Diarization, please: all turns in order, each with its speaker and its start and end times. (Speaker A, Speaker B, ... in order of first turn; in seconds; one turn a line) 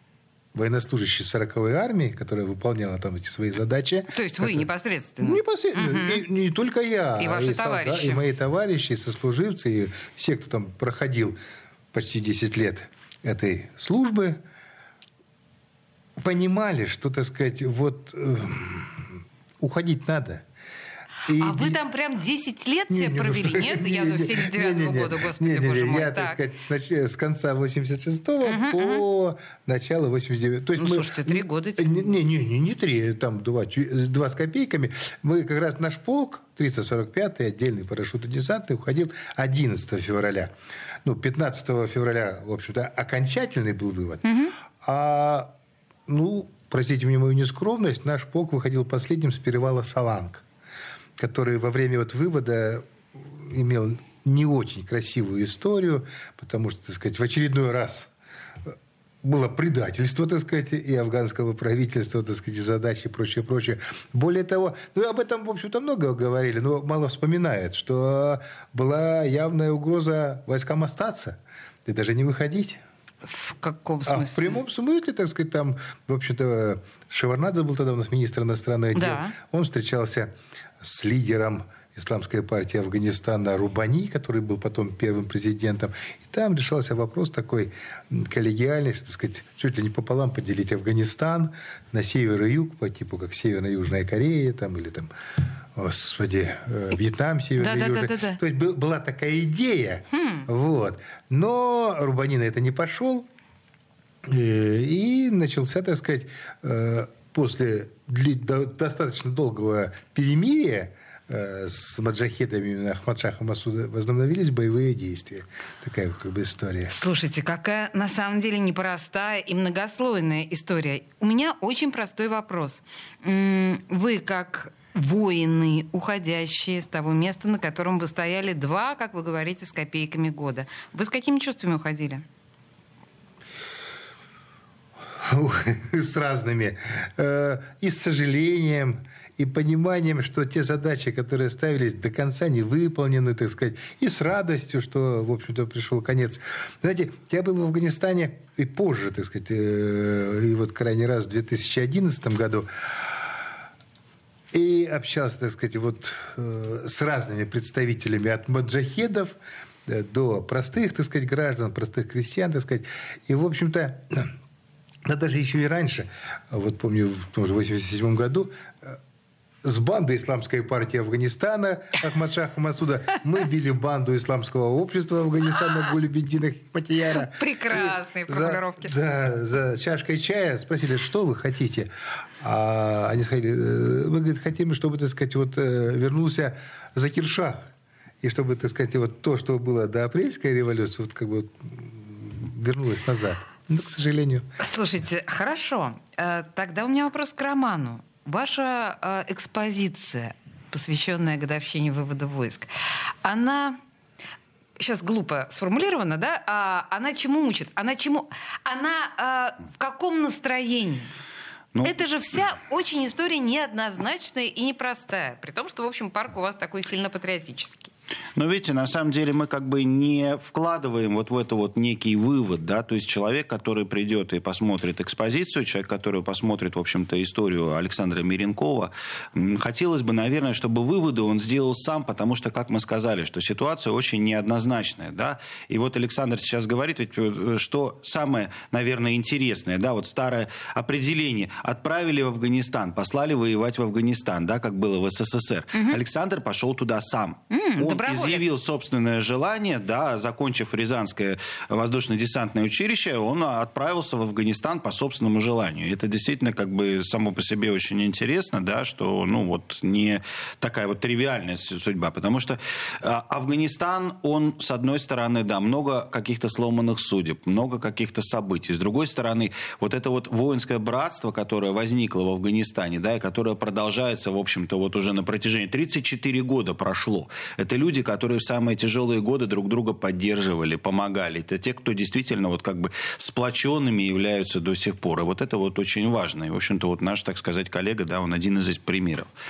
Speaker A: 0.5-4.7
Speaker B: 4.1-6.2
Speaker A: 5.2-11.4
Speaker B: 7.2-8.2
Speaker A: 11.9-14.4
Speaker A: 16.2-20.4
Speaker A: 21.3-21.8
Speaker B: 21.3-26.4
Speaker A: 22.9-40.5
Speaker B: 28.4-29.0
Speaker B: 30.8-31.9
Speaker A: 41.0-44.2
Speaker B: 44.2-44.5
Speaker A: 44.8-45.5
Speaker A: 46.1-50.4
Speaker A: 51.2-58.1
Speaker A: 58.6-72.8
Speaker B: 73.3-74.6
Speaker A: 74.0-95.1
Speaker B: 78.9-79.3
Speaker A: 95.7-103.3
Speaker B: 97.6-98.4
Speaker B: 100.1-100.5
Speaker A: 104.2-117.0
Speaker B: 116.9-132.2
Speaker A: 135.2-153.2
Speaker A: 154.5-159.3
Speaker A: 159.8-164.3
Speaker A: 165.0-169.0
Speaker A: 169.6-187.7
Speaker B: 177.1-178.9
Speaker A: 188.2-194.4
Speaker B: 194.6-202.7
Speaker B: 203.2-203.8
Speaker B: 204.8-211.1
Speaker B: 211.8-217.9
Speaker C: 218.3-289.3
Speaker B: 245.7-246.0
Speaker B: 247.5-248.5